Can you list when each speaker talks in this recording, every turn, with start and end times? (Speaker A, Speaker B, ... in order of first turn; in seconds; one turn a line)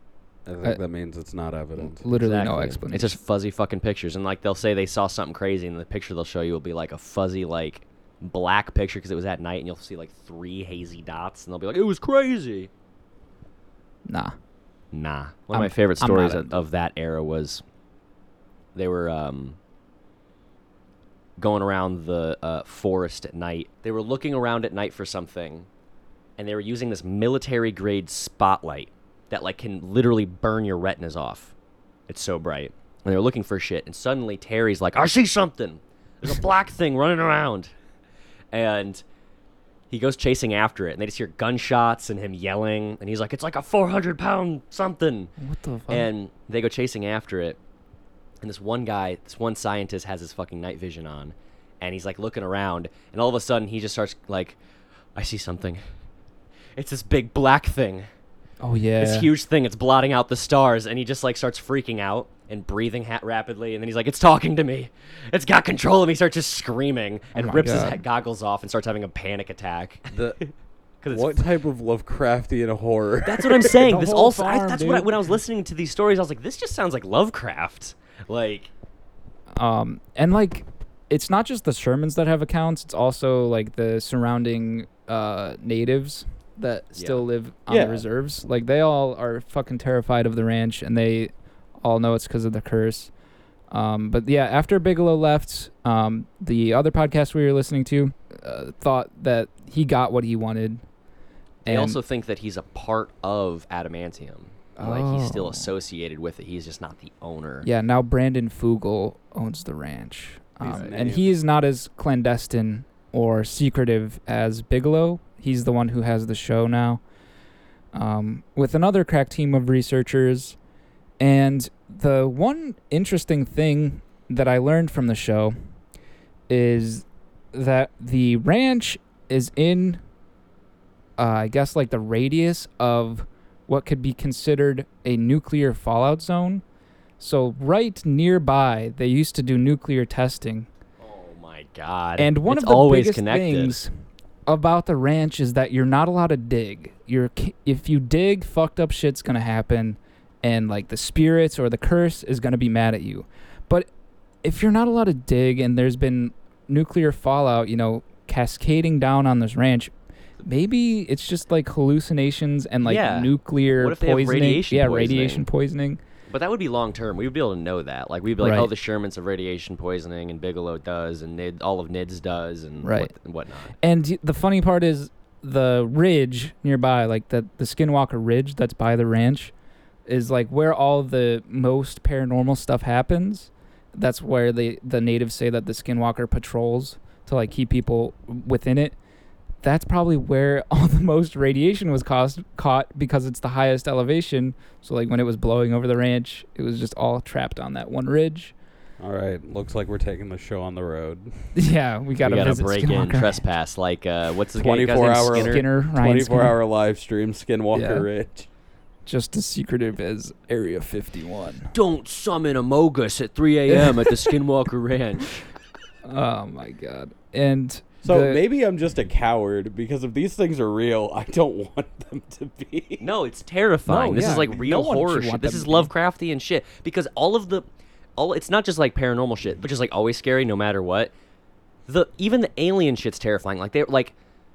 Speaker A: 0.5-2.0
Speaker B: 1.8-3.2
Speaker C: 2.1-12.7
Speaker B: 14.1-14.4
Speaker C: 14.9-17.6
Speaker B: 15.5-16.5
Speaker C: 18.8-19.6
Speaker C: 21.4-25.7
Speaker C: 26.4-31.5
Speaker C: 32.1-37.7
Speaker C: 38.5-39.0
Speaker C: 39.9-45.3
Speaker B: 45.4-46.1
Speaker C: 45.9-47.6
Speaker C: 48.4-54.6
Speaker C: 55.1-55.8
Speaker C: 56.8-58.1
Speaker B: 58.6-59.3
Speaker C: 59.0-70.5
Speaker B: 67.3-68.0
Speaker A: 70.1-70.4
Speaker C: 71.0-71.5
Speaker A: 71.1-73.8
Speaker C: 73.2-78.7
Speaker B: 73.7-75.1
Speaker B: 79.6-91.3
Speaker C: 87.0-87.2
Speaker A: 87.7-88.0
Speaker B: 91.8-93.1
Speaker B: 93.7-100.8
Speaker B: 101.7-102.0
Speaker C: 101.7-107.7
Speaker B: 104.8-105.7
Speaker B: 107.6-117.0
Speaker A: 110.6-111.3
Speaker B: 117.9-120.6
Speaker B: 121.2-125.5
Speaker B: 126.5-130.0
Speaker B: 131.2-136.6
Speaker B: 137.2-140.7
Speaker C: 141.0-143.8
Speaker B: 142.2-143.9
Speaker B: 144.5-153.9
Speaker B: 154.4-159.9
Speaker B: 160.4-166.0
Speaker C: 162.8-165.5
Speaker C: 166.3-173.7
Speaker B: 168.4-168.7
Speaker B: 172.8-173.1
Speaker B: 173.8-179.5
Speaker B: 180.1-189.0
Speaker B: 189.6-198.6
Speaker A: 199.0-201.5
Speaker B: 201.6-203.4
Speaker C: 202.2-205.7
Speaker A: 204.6-208.5
Speaker B: 205.3-206.6
Speaker B: 207.7-208.1
Speaker B: 209.1-211.7
Speaker C: 211.7-215.4
Speaker B: 213.7-214.4
Speaker B: 216.1-218.4
Speaker A: 218.0-223.1
Speaker C: 223.0-227.7
Speaker B: 223.9-225.9
Speaker C: 228.2-231.1
Speaker C: 231.9-234.1